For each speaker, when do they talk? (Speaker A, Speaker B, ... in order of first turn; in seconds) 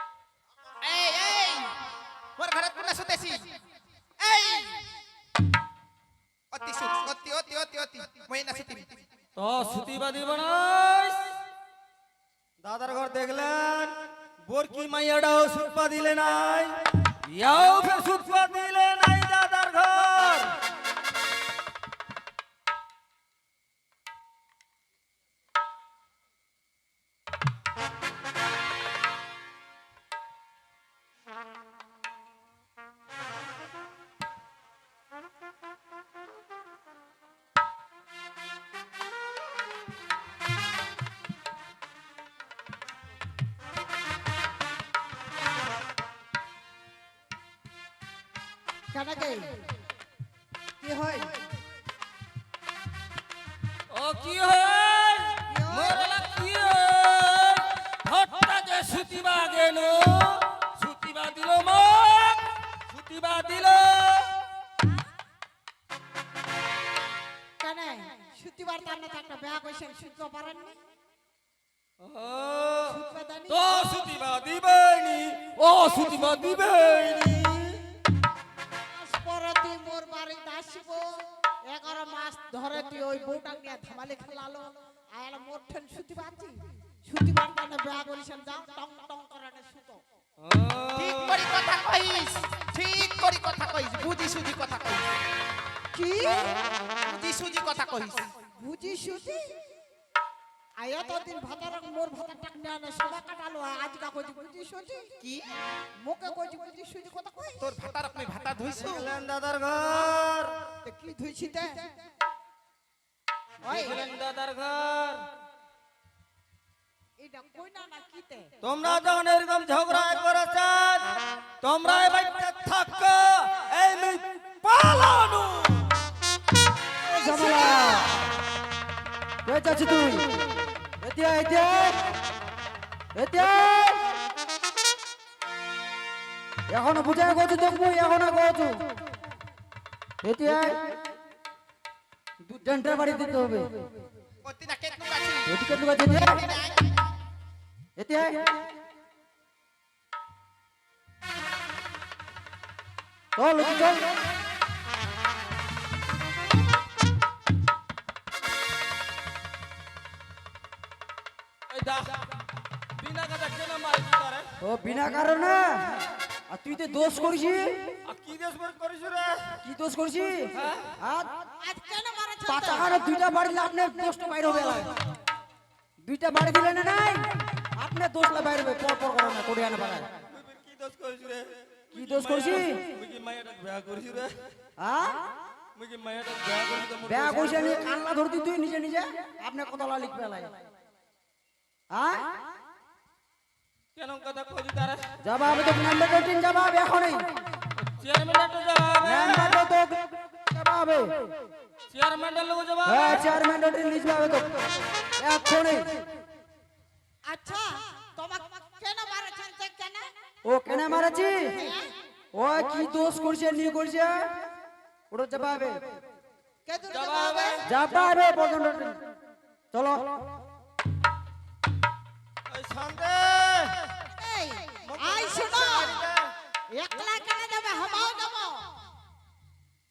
Speaker A: 0.8-1.8, 2.4-3.5, 4.2-4.9, 6.5-9.0, 91.0-95.2, 97.0-98.3, 107.6-109.1, 144.4-146.9
Speaker B: 9.4-11.3, 12.6-20.6, 53.9-64.4, 72.0-77.8, 90.4-91.4, 108.8-110.5, 113.7-115.3, 118.6-126.0, 161.7-162.2, 163.0-164.5, 168.1-169.6, 170.6-170.9, 180.3-184.4, 185.8-187.9, 193.9-195.1, 197.8-199.7, 201.9-203.4, 216.9-217.7, 222.5-223.9, 224.8-226.3
Speaker C: 48.9-49.6, 50.8-51.2, 55.5-56.0, 67.6-70.8, 72.9-74.0, 78.9-81.1, 81.7-90.0, 95.9-96.5, 98.6-99.5, 100.8-105.2, 106.0-107.7, 110.8-111.8, 113.6-114.0, 117.2-118.5, 127.1-128.3, 171.6-173.1, 207.3-210.1, 211.4-211.9, 216.7-217.7, 224.2-226.0, 226.7-228.7
Speaker D: 127.1-128.2, 129.4-132.1, 133.2-134.1, 136.7-138.9, 140.2-140.9, 142.4-143.9, 145.5-146.4, 148.0-148.7, 153.4-154.1, 164.6-168.0, 169.6-171.3, 172.4-174.9, 176.0-180.1, 181.9-182.8, 184.8-185.3, 187.0-190.5, 191.9-192.4, 195.2-197.4, 199.0-201.3, 202.8-206.0, 210.4-211.6, 212.3-214.4, 215.1-215.9, 217.7-219.1, 219.7-220.2